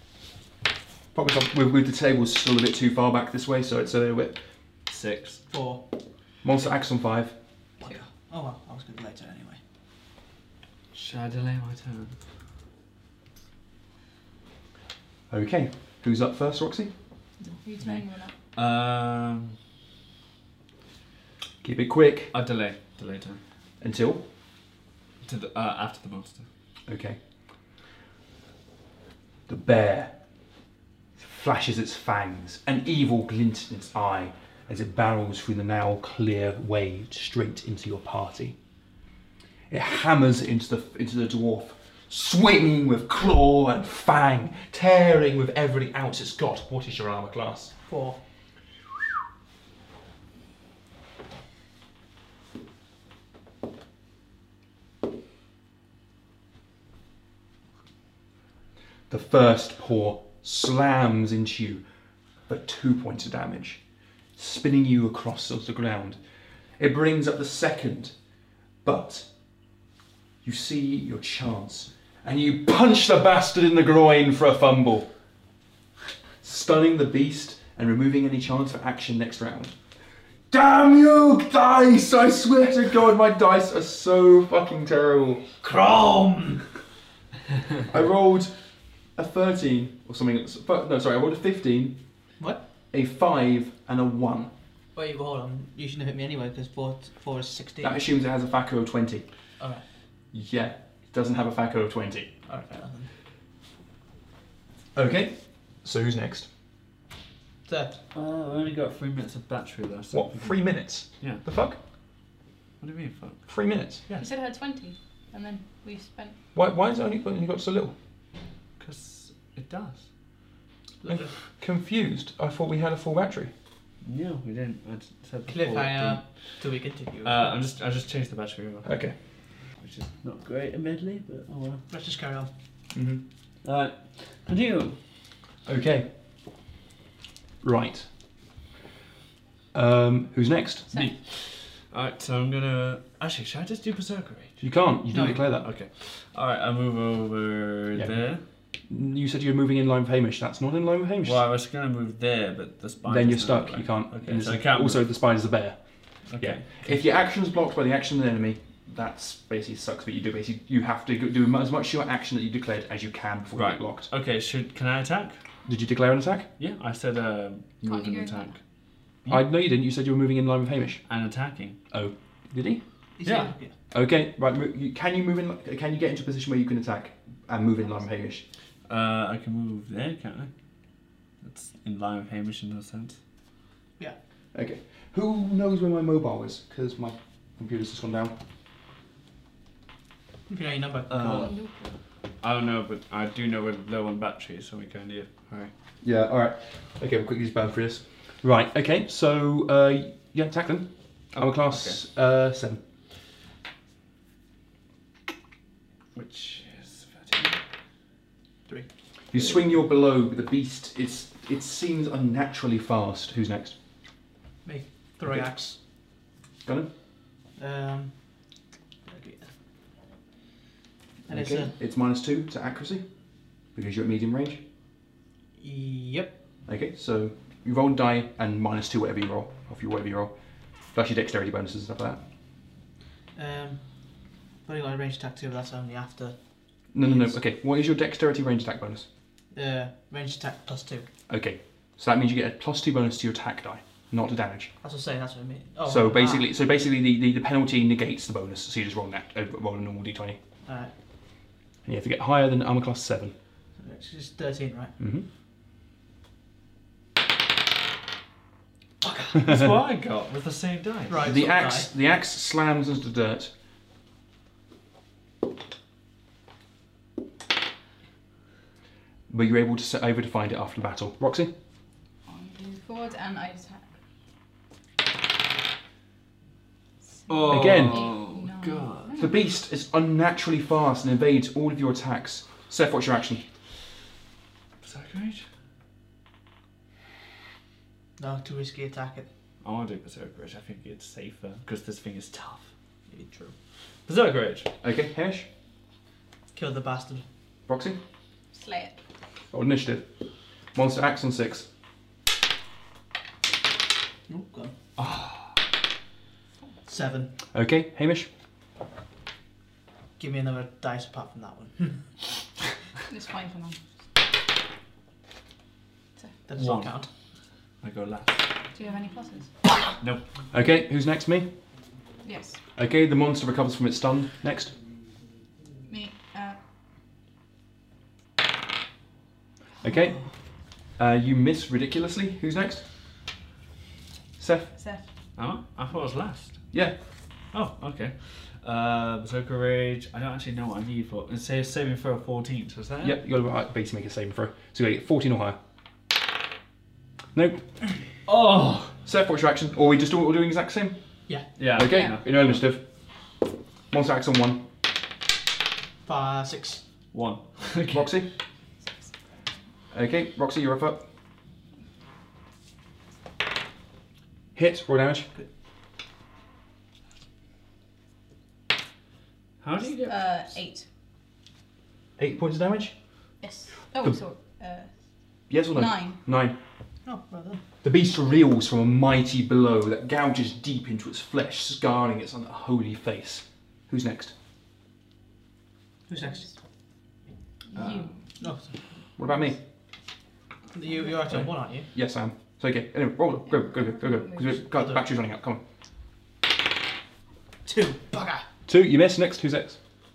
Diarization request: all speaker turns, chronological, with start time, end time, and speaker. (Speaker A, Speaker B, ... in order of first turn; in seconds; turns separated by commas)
Speaker A: 1.1-4.4, Speaker B: 4.9-5.4, Speaker C: 5.5-5.8, Speaker A: 6.4-7.4, Speaker C: 7.8-9.6, Speaker B: 10.9-12.2, Speaker A: 15.3-16.9, Speaker D: 17.4-18.3, Speaker B: 18.5-19.6, Speaker A: 21.6-22.3, Speaker B: 22.3-23.4, Speaker A: 23.8-24.2, Speaker B: 25.2-26.5, Speaker A: 26.9-27.2, Speaker A: 29.5-30.2, Speaker A: 31.2-38.6, Speaker A: 39.7-47.8, Speaker C: 47.9-48.2, Speaker A: 59.1-61.8, Speaker A: 62.5-63.8, Speaker A: 64.4-66.2, Speaker A: 66.8-68.2, Speaker A: 68.8-69.3, Speaker A: 70.4-75.1, Speaker A: 76.4-79.8, Speaker A: 80.5-85.5, Speaker C: 85.6-86.7, Speaker A: 87.9-88.5, Speaker A: 89.2-92.0, Speaker A: 92.9-94.5, Speaker C: 95.0-98.0, Speaker A: 97.8-99.3, Speaker A: 100.3-102.3, Speaker C: 102.5-103.1, Speaker A: 104.9-106.5, Speaker C: 107.7-108.0, Speaker B: 108.1-110.6, Speaker A: 110.1-111.8, Speaker B: 112.8-113.5, Speaker A: 113.5-114.0, Speaker D: 114.2-116.4, Speaker A: 116.5-118.0, Speaker B: 118.8-120.0, Speaker C: 121.0-121.3, Speaker A: 121.1-123.5, Speaker B: 124.0-126.3, Speaker C: 125.5-127.4, Speaker B: 127.2-128.9, Speaker A: 128.8-129.2, Speaker B: 129.8-131.8, Speaker C: 131.9-132.5, Speaker A: 132.9-133.2, Speaker B: 133.6-135.0, Speaker A: 135.7-136.1, Speaker A: 137.6-138.1, Speaker A: 139.7-141.1, Speaker B: 140.9-144.6, Speaker A: 144.6-145.7, Speaker C: 145.1-145.4, Speaker B: 145.6-148.4, Speaker A: 147.9-148.2, Speaker A: 148.9-151.4, Speaker B: 151.2-155.0, Speaker A: 153.0-155.8, Speaker B: 156.3-157.0, Speaker A: 156.4-164.1, Speaker B: 163.6-165.4, Speaker A: 165.7-166.5, Speaker B: 166.6-168.6, Speaker D: 167.8-168.6, Speaker A: 169.3-171.0, Speaker B: 171.1-171.8, Speaker A: 171.9-172.8, Speaker C: 173.2-173.8, Speaker B: 173.2-173.5, Speaker A: 173.9-178.5, Speaker B: 178.9-180.5, Speaker B: 181.4-183.2, Speaker A: 184.5-188.4, Speaker C: 190.5-191.5, Speaker B: 191.2-191.5, Speaker D: 191.4-191.9, Speaker B: 192.4-195.7, Speaker A: 196.0-202.8, Speaker B: 201.3-202.0, Speaker B: 206.2-207.6, Speaker A: 209.3-213.8, Speaker C: 214.7-215.8, Speaker A: 216.7-216.9, Speaker C: 217.6-218.4, Speaker C: 219.1-219.5, Speaker A: 221.3-223.1, Speaker C: 221.3-221.7, Speaker A: 223.7-224.7, Speaker C: 225.6-226.4, Speaker A: 226.7-230.4, Speaker A: 230.9-232.2, Speaker C: 233.3-233.8, Speaker C: 234.7-236.4, Speaker A: 236.9-239.1, Speaker C: 237.0-237.4, Speaker C: 239.5-241.1, Speaker A: 241.3-244.7, Speaker C: 244.8-246.5, Speaker A: 245.9-250.4, Speaker C: 250.7-250.9, Speaker A: 251.8-253.3, Speaker C: 253.8-254.9, Speaker A: 255.0-255.3, Speaker C: 259.0-259.5, Speaker B: 259.3-261.3, Speaker C: 261.1-261.9, Speaker A: 261.2-263.5, Speaker A: 269.3-271.5, Speaker D: 272.3-273.9, Speaker D: 277.3-279.3, Speaker B: 277.3-279.2, Speaker A: 277.5-278.1, Speaker A: 279.2-283.4, Speaker B: 284.8-285.4, Speaker C: 288.2-289.3, Speaker B: 289.6-292.7, Speaker C: 293.1-293.5, Speaker B: 294.1-294.7, Speaker A: 294.8-295.5, Speaker C: 296.5-297.3, Speaker A: 297.7-298.0, Speaker D: 298.5-299.0, Speaker A: 299.5-300.1, Speaker A: 300.7-301.7, Speaker C: 304.3-304.8, Speaker B: 305.0-305.5, Speaker C: 306.9-307.3, Speaker A: 307.5-308.3, Speaker C: 310.2-312.1, Speaker D: 313.1-313.8, Speaker C: 316.5-317.1, Speaker B: 316.6-316.9, Speaker B: 317.8-318.5, Speaker D: 318.8-319.5, Speaker B: 320.0-320.2, Speaker A: 320.5-321.5, Speaker D: 322.2-322.6, Speaker A: 322.8-324.8, Speaker D: 325.9-326.6, Speaker A: 329.8-330.2, Speaker A: 331.0-332.9, Speaker A: 334.4-334.8, Speaker D: 334.8-335.0, Speaker B: 335.4-336.6, Speaker B: 337.5-343.2, Speaker A: 343.0-345.6, Speaker A: 347.3-347.6, Speaker B: 348.3-349.0, Speaker A: 349.1-351.0, Speaker B: 351.6-352.6, Speaker A: 351.7-352.9, Speaker D: 351.9-352.2, Speaker A: 353.9-354.7, Speaker C: 356.1-356.8, Speaker B: 357.1-358.1, Speaker A: 357.9-358.3, Speaker A: 359.9-361.1, Speaker A: 364.6-365.3, Speaker B: 369.6-370.5, Speaker D: 370.1-370.9, Speaker A: 372.2-373.0, Speaker D: 373.4-374.9, Speaker A: 375.5-376.6, Speaker D: 375.7-376.2, Speaker C: 377.1-377.6, Speaker A: 377.8-384.3, Speaker C: 386.1-386.5, Speaker D: 387.7-388.1, Speaker B: 387.8-388.1, Speaker C: 388.4-388.8, Speaker A: 389.2-389.6, Speaker C: 390.7-391.9, Speaker A: 391.3-395.6, Speaker D: 393.5-394.5, Speaker C: 394.7-395.0, Speaker C: 397.6-398.5, Speaker A: 398.7-399.8